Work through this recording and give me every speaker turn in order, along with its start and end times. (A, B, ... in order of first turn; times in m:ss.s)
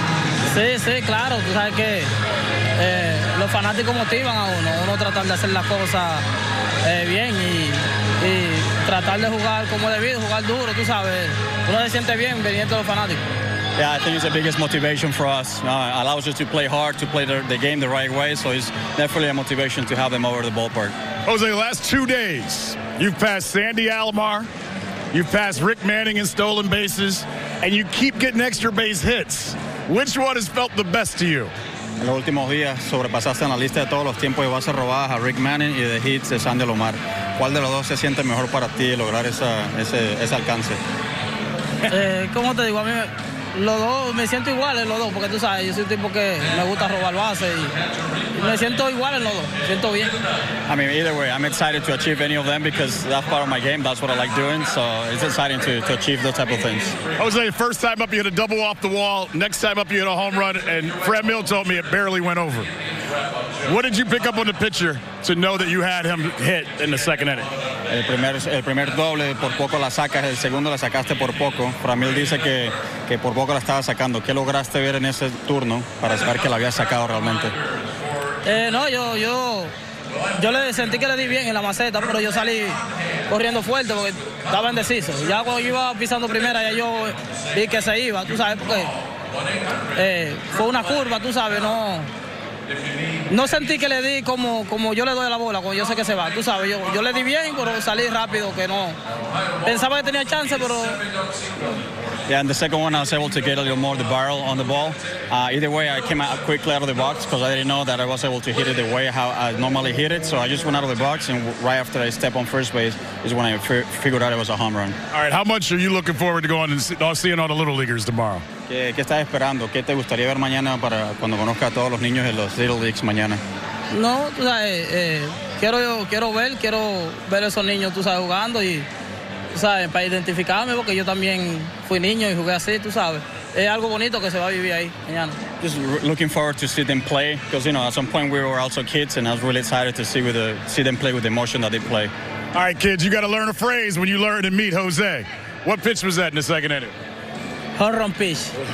0:00.4-0:02.1 A
0:02.8-0:06.2 A
0:06.8-0:13.2 A
0:13.8-0:21.0 B
0:21.3-0:24.5 C
0:25.1-0:31.5 C
0:32.0-0:40.8 B
0:41.9-0:47.7 A
0:48.3-0:50.2 A
0:50.7-0:57.0 B
0:57.2-1:02.7 C
1:03.6-1:07.5 C
1:07.9-1:17.6 B
1:18.4-1:19.7 A
1:20.3-1:29.0 A
1:30.0-1:32.1 A
1:33.3-1:39.0 A
1:39.6-1:41.0 A
1:42.3-1:55.0 B
1:55.1-1:58.4 C
1:58.7-2:03.4 B
2:03.9-2:08.9 A
2:09.5-2:15.4 A
2:15.6-2:22.1 B
2:22.5-2:26.9 C
2:27.8-2:28.5 A